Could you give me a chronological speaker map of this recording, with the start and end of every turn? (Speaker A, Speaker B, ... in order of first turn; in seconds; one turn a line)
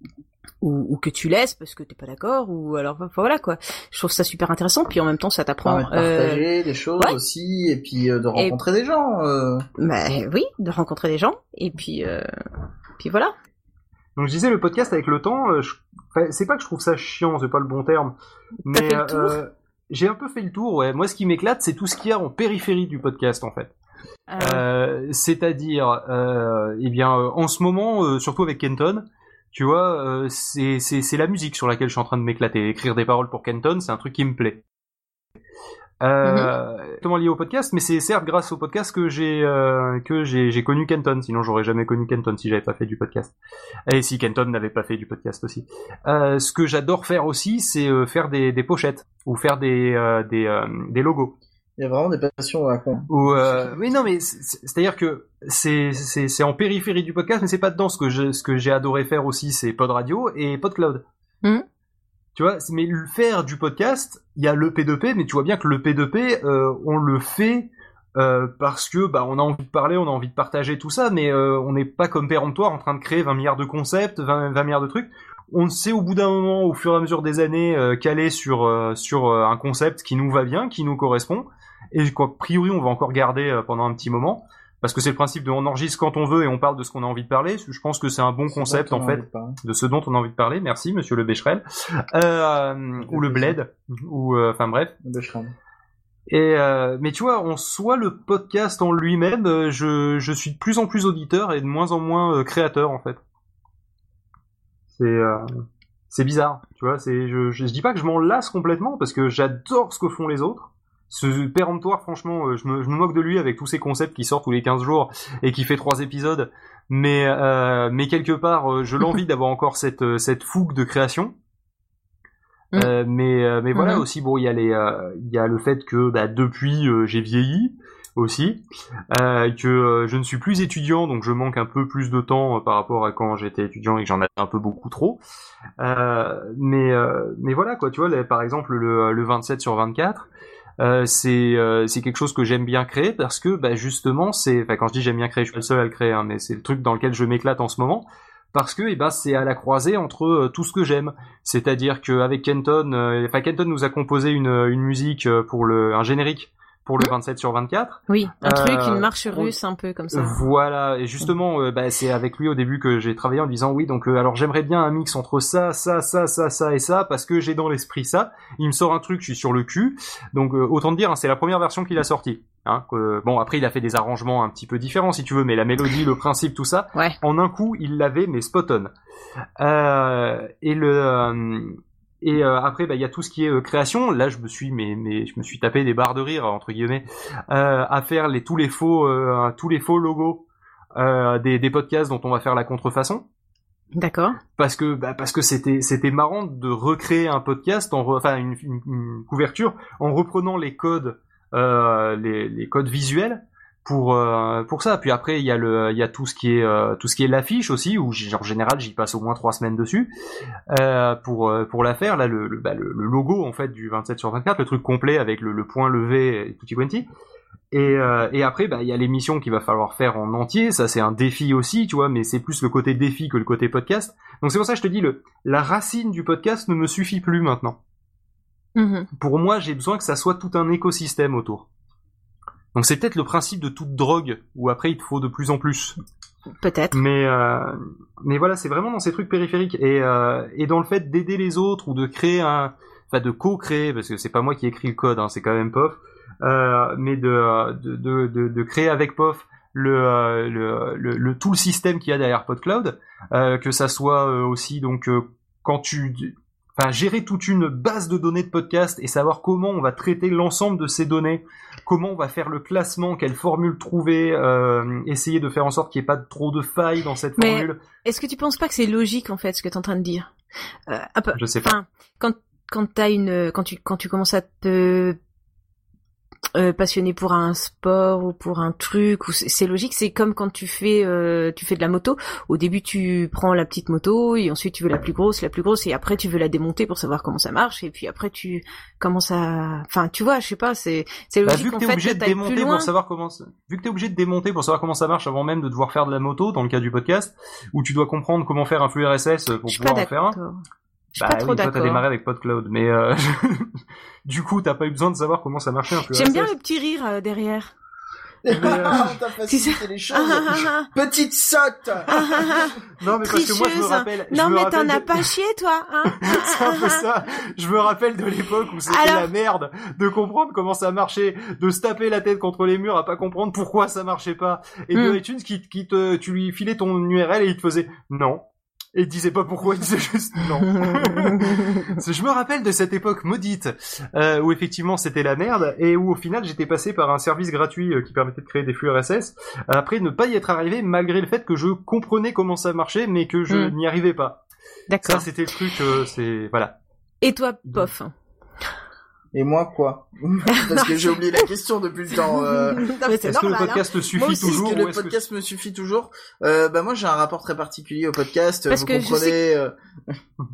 Speaker A: 0.6-6.4
Speaker B: 5.6-9.7
Speaker A: 9.8-12.3
Speaker A: 13.0-13.3
Speaker C: 14.2-18.1
Speaker C: 18.7-23.7
Speaker A: 18.7-19.4
Speaker A: 24.3-24.6
Speaker C: 24.4-34.6
Speaker C: 36.0-43.3
Speaker A: 36.2-36.5
Speaker C: 43.9-51.4
Speaker B: 51.8-54.0
Speaker C: 53.1-61.0
Speaker C: 62.4-91.6
Speaker B: 88.5-89.6
Speaker C: 92.1-94.9
Speaker B: 93.0-93.6
Speaker B: 95.0-95.5
Speaker C: 96.3-103.2
Speaker C: 104.9-121.3
Speaker C: 122.7-135.2
Speaker A: 123.7-124.0
Speaker C: 135.8-140.3
Speaker C: 140.8-159.6
Speaker A: 158.1-160.5
Speaker C: 160.1-178.9
Speaker C: 179.6-190.4
Speaker C: 190.9-193.2
Speaker A: 194.0-194.4
Speaker C: 194.6-210.1
Speaker C: 210.7-217.1
Speaker C: 217.7-227.8
Speaker A: 228.8-229.1
Speaker C: 229.2-231.7
Speaker C: 232.7-236.0
Speaker A: 236.6-237.0
Speaker C: 236.9-267.8
Speaker A: 267.4-270.3
Speaker A: 270.9-275.2
Speaker C: 271.4-271.8
Speaker A: 276.6-292.9
Speaker C: 291.5-300.4
Speaker A: 299.7-300.6
Speaker A: 301.2-302.0
Speaker C: 301.2-306.5
Speaker A: 306.1-307.7
Speaker B: 308.5-312.2
Speaker C: 308.5-309.1
Speaker A: 308.6-310.9
Speaker A: 312.1-317.0
Speaker C: 313.0-315.3
Speaker C: 316.1-328.4
Speaker A: 318.9-319.3
Speaker A: 324.9-325.2
Speaker C: 328.9-344.4
Speaker A: 330.8-331.9
Speaker A: 343.5-343.8
Speaker A: 344.9-345.3
Speaker C: 345.0-346.8
Speaker A: 347.2-348.1
Speaker B: 349.3-352.9
Speaker A: 350.5-351.4
Speaker A: 352.2-354.8
Speaker C: 353.2-355.2
Speaker B: 354.3-359.7
Speaker A: 358.7-359.4